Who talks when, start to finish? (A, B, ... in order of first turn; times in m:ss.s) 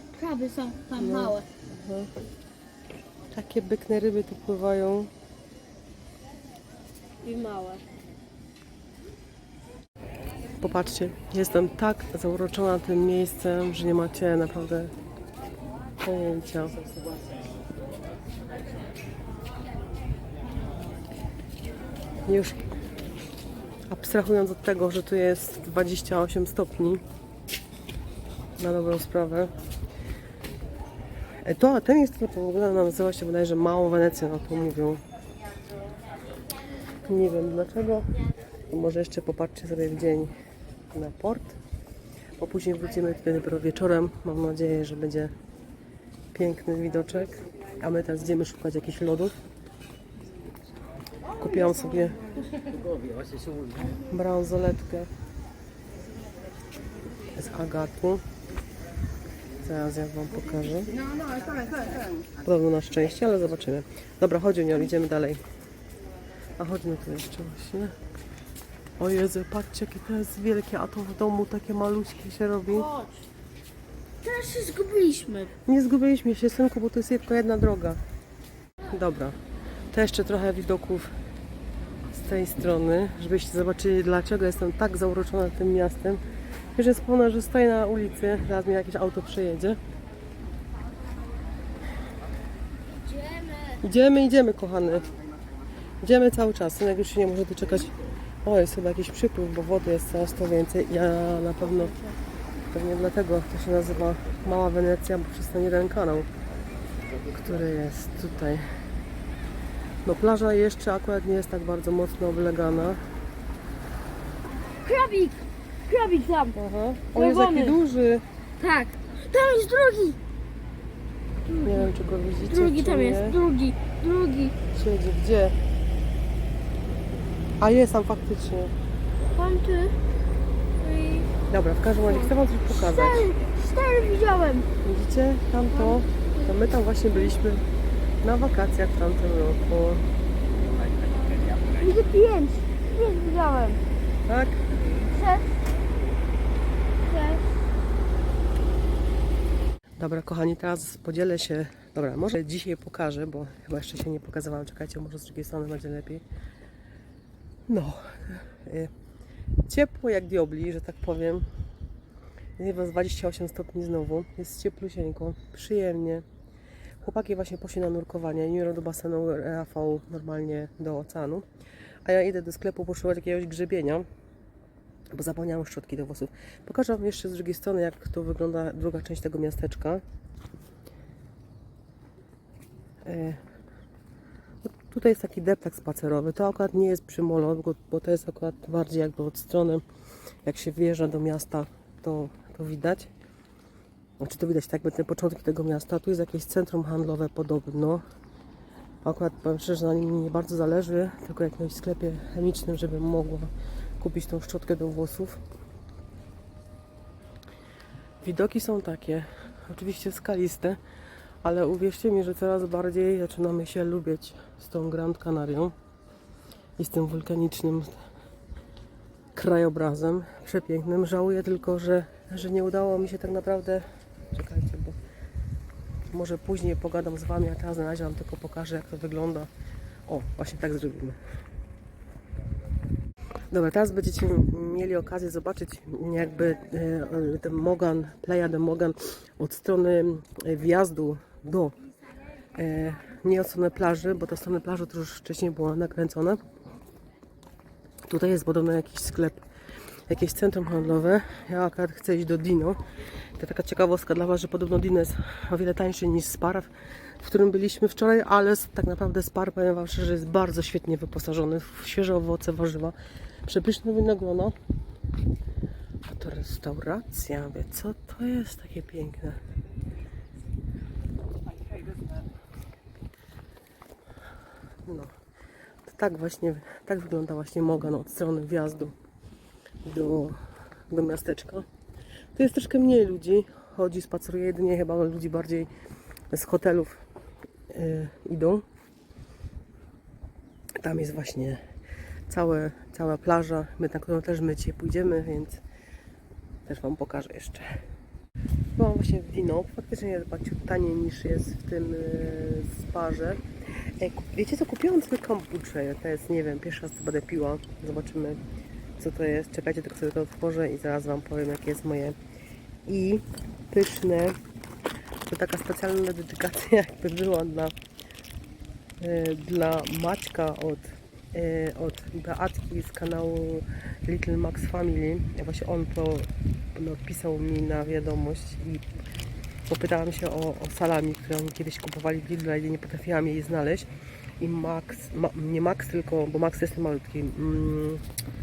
0:00.1-0:01.5 A
0:01.0-0:02.1 B
0:03.3-0:05.1 B
0:07.2-0:07.8 A
0:10.6-0:14.9 B
0:16.0-0:16.8 B
0:22.3-0:22.6 B
0:23.9-0:27.0 B
0:28.6-0:29.5 B
0:31.4-0:35.0 B
0:37.0-0:38.1 B
0:38.7-0:40.3 B
0:40.9-0:41.6 B
0:42.4-0:45.3 B
0:46.3-0:49.4 B
0:51.4-0:52.2 B
0:54.1-0:55.1 B
0:57.3-0:58.2 B
0:59.6-1:01.0 B
1:01.2-1:01.9 A
1:02.4-1:05.4 B
1:06.6-1:07.9 B
1:09.0-1:12.9 B
1:12.7-1:13.3 A
1:14.2-1:15.5 A
1:15.7-1:18.0 B
1:18.9-1:19.4 B
1:19.9-1:21.1 B
1:22.1-1:26.2 B
1:26.8-1:29.8 B
1:32.9-1:33.8 A
1:33.8-1:35.1 B
1:36.0-1:37.9 B
1:38.4-1:41.9 B
1:41.7-1:42.2 A
1:42.7-1:46.3 B
1:47.3-1:48.7 B
1:50.0-1:53.0 B
1:54.8-1:56.6 A
1:56.6-1:58.2 B
1:57.1-1:57.8 A
1:58.6-2:00.2 A
2:01.5-2:04.6 A
2:01.6-2:03.4 B
2:04.7-2:05.6 B
2:07.6-2:08.7 B
2:09.3-2:10.0 A
2:10.8-2:11.3 A
2:11.5-2:13.3 B
2:11.9-2:14.7 A
2:14.8-2:17.7 B
2:15.7-2:17.3 A
2:18.2-2:20.1 B
2:20.9-2:23.8 A
2:24.3-2:24.7 B
2:25.1-2:25.6 A
2:27.0-2:27.5 A
2:30.0-2:36.2 B
2:37.7-2:38.9 B
2:39.7-2:41.5 B
2:42.6-2:46.2 B
2:47.0-2:51.4 B
2:52.0-2:54.1 B
2:55.1-3:00.0 B
3:03.0-3:03.4 B
3:04.6-3:09.8 B
3:10.4-3:13.1 B
3:14.2-3:18.0 B
3:19.0-3:25.4 B
3:28.2-3:30.8 B
3:31.4-3:35.7 B
3:36.8-3:37.9 B
3:39.4-3:45.0 B
3:46.1-3:49.5 B
3:50.1-3:51.2 B
3:53.5-4:01.8 B
4:02.5-4:06.4 B
4:08.1-4:09.4 B
4:10.1-4:12.8 B
4:13.4-4:24.6 B
4:26.0-4:29.4 B
4:34.9-4:35.1 B
4:35.8-4:39.0 B
4:39.8-4:40.4 B
4:40.9-4:41.7 B
4:42.4-4:45.7 B
4:46.3-4:47.0 B
4:47.7-4:48.6 B
4:50.8-4:51.6 B
4:52.3-4:55.6 B
4:56.7-4:57.7 B
4:58.8-5:03.4 B
5:04.0-5:08.4 B
5:09.0-5:12.2 B
5:12.9-5:14.4 B
5:15.3-5:17.7 B
5:19.0-5:28.8 B
5:29.7-5:33.9 B
5:34.4-5:38.0 B